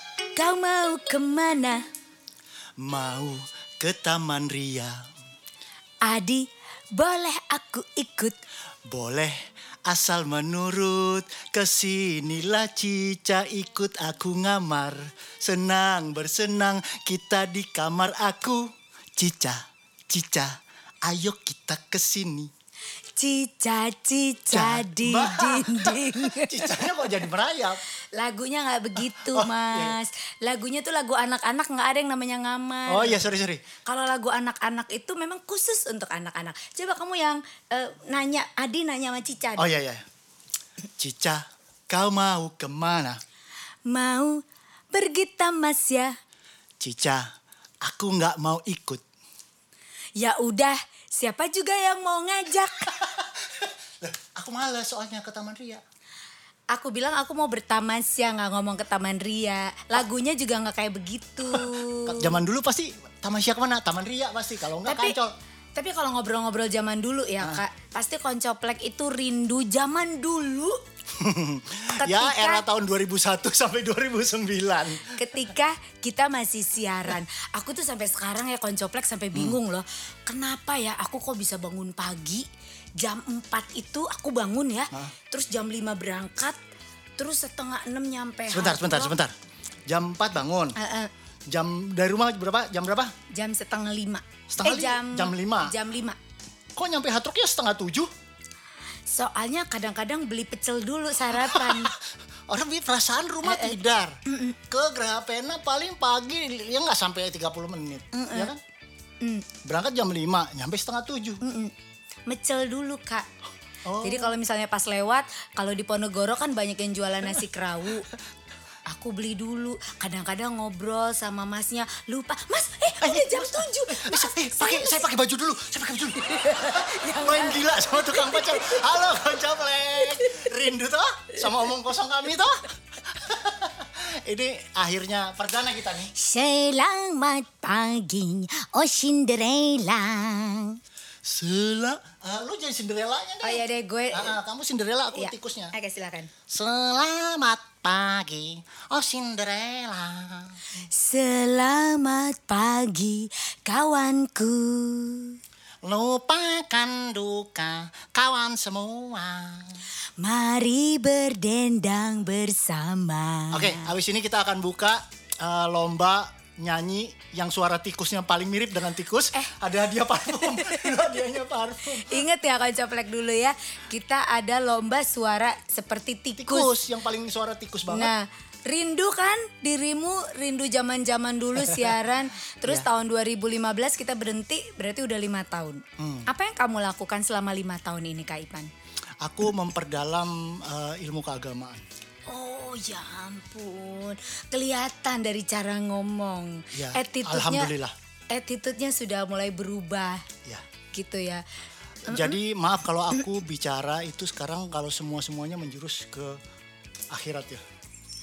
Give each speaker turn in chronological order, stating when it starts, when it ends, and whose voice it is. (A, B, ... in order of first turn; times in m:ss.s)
0:00.4-0:01.8 A
0:02.8-0:05.1 B
0:06.0-0:08.4 A
0:08.9-0:09.4 B
0:09.9-0:22.5 B
0:23.1-0:27.2 A
0:24.5-0:27.8 B
0:28.1-0:33.3 A
0:29.0-0:30.0 B
0:32.9-0:33.6 B
0:33.8-0:39.7 A
0:39.6-0:40.0 B
0:41.0-0:43.2 B
0:43.9-0:46.2 A
0:46.8-0:47.2 B
0:47.8-0:49.0 B
0:50.2-0:53.0 A
0:52.8-0:55.8 B
0:56.7-1:02.4 A
1:01.5-1:05.3 B
1:04.8-1:05.2 A
1:05.8-1:10.8 A
1:11.1-1:15.3 B
1:12.0-1:12.6 A
1:15.2-1:22.5 A
1:23.0-1:26.6 A
1:27.2-1:29.2 A
1:28.5-1:29.3 B
1:29.9-1:30.8 B
1:30.8-1:31.1 A
1:31.5-1:33.1 B
1:33.3-1:36.2 A
1:34.5-1:35.7 B
1:36.8-1:38.1 B
1:39.1-1:41.9 A
1:41.3-1:48.6 B
1:43.4-1:44.6 A
1:48.1-1:48.5 A
1:49.2-1:49.5 A
1:49.6-1:51.4 B
1:51.4-1:51.7 A
1:52.3-1:53.3 A
1:53.8-1:54.4 B
1:54.0-1:58.1 A
1:58.9-2:05.0 A
2:03.0-2:16.1 B
2:06.2-2:09.0 A
2:10.0-2:10.5 A
2:16.1-2:20.8 A
2:21.2-2:25.7 B
2:23.4-2:24.4 A
2:25.1-2:26.3 A
2:26.5-2:30.8 B
2:30.8-2:35.4 A
2:35.8-2:39.8 B
2:40.2-2:43.9 A
2:43.5-2:52.2 B
2:50.2-2:51.3 A
2:51.9-2:56.7 A
2:56.4-2:58.1 B
2:57.9-3:08.7 A
3:01.6-3:01.9 B
3:06.0-3:06.3 B
3:09.2-3:11.8 B
3:12.3-3:17.7 A
3:16.7-3:17.9 B
3:18.3-3:20.2 A
3:20.9-3:21.4 A
3:22.0-3:26.4 B
3:22.1-3:22.4 A
3:27.1-3:27.6 B